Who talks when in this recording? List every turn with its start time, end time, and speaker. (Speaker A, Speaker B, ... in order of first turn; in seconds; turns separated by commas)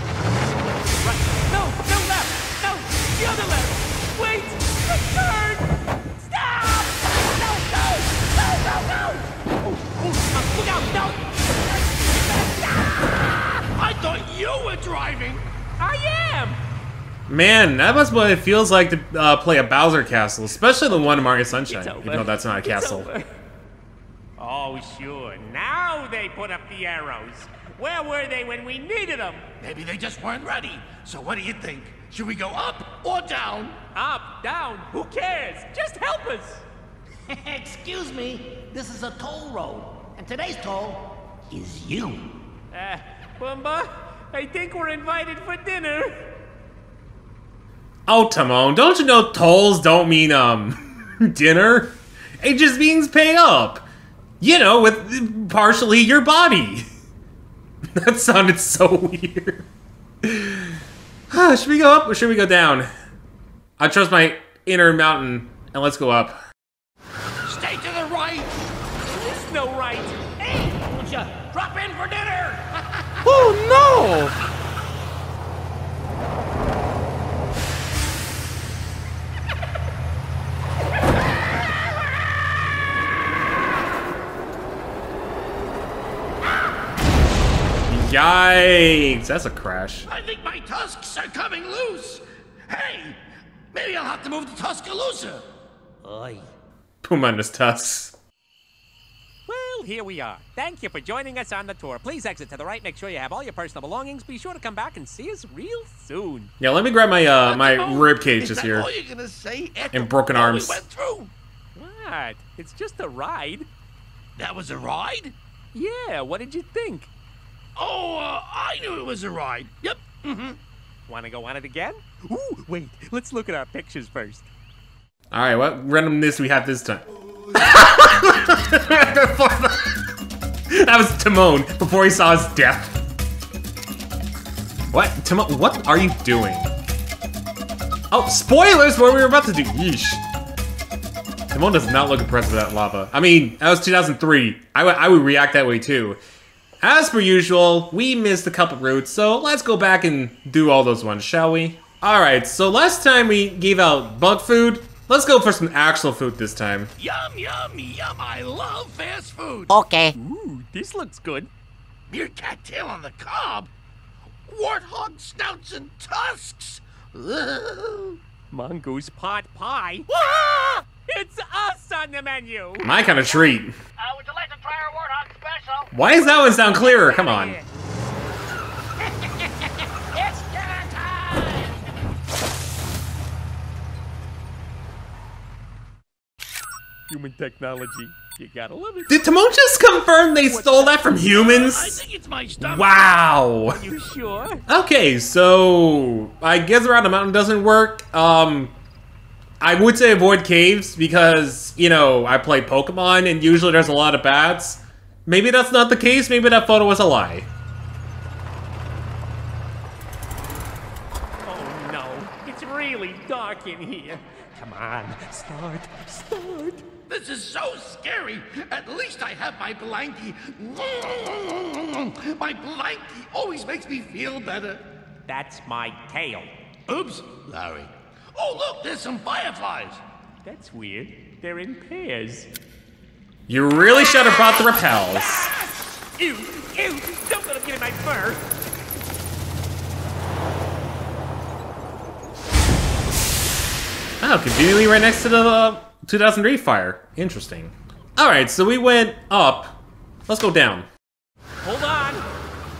Speaker A: 0.9-13.4, Speaker B: 13.7-15.4, Speaker A: 15.8-16.6, Speaker C: 17.3-23.1, Speaker A: 21.3-23.2, Speaker A: 24.4-29.4, Speaker B: 29.6-33.8, Speaker A: 33.9-36.6, Speaker D: 37.3-42.2, Speaker A: 42.7-46.3, Speaker C: 48.1-53.9, Speaker C: 54.4-56.9, Speaker C: 58.0-59.7, Speaker C: 60.2-60.8, Speaker C: 61.3-62.9, Speaker C: 63.8-66.4, Speaker B: 67.5-68.5, Speaker A: 69.1-70.3, Speaker D: 70.8-71.3, Speaker A: 73.4-74.3, Speaker C: 87.9-90.1, Speaker B: 90.1-93.2, Speaker B: 93.7-95.4, Speaker A: 96.0-96.5, Speaker C: 97.0-98.1, Speaker A: 99.5-106.5, Speaker C: 106.6-108.9, Speaker B: 107.4-111.3, Speaker C: 109.9-110.8, Speaker A: 111.7-113.7, Speaker B: 114.4-115.3, Speaker A: 115.7-117.1, Speaker B: 117.8-120.6, Speaker A: 121.1-124.5, Speaker C: 125.3-129.9, Speaker C: 130.7-133.0, Speaker C: 134.9-136.7, Speaker C: 138.1-140.2, Speaker C: 141.5-146.2, Speaker C: 146.8-156.9, Speaker B: 157.0-159.7, Speaker D: 159.7-160.1, Speaker A: 160.1-161.5, Speaker B: 162.1-163.7, Speaker B: 164.5-168.2, Speaker A: 168.5-172.9, Speaker C: 172.8-173.7, Speaker D: 174.3-175.5, Speaker C: 175.9-177.6, Speaker A: 176.4-177.7, Speaker B: 180.3-181.4, Speaker A: 187.1-189.2, Speaker C: 189.1-192.0, Speaker A: 190.4-191.1, Speaker B: 191.3-193.1, Speaker C: 192.6-193.9, Speaker A: 193.7-194.6, Speaker C: 194.7-198.7, Speaker C: 199.6-207.5, Speaker A: 211.4-216.8, Speaker B: 217.1-224.8, Speaker A: 225.3-226.5, Speaker B: 226.9-230.0, Speaker A: 230.4-232.5, Speaker C: 233.5-235.5, Speaker B: 234.1-235.6, Speaker A: 236.2-238.5, Speaker C: 244.2-250.9, Speaker A: 251.6-252.2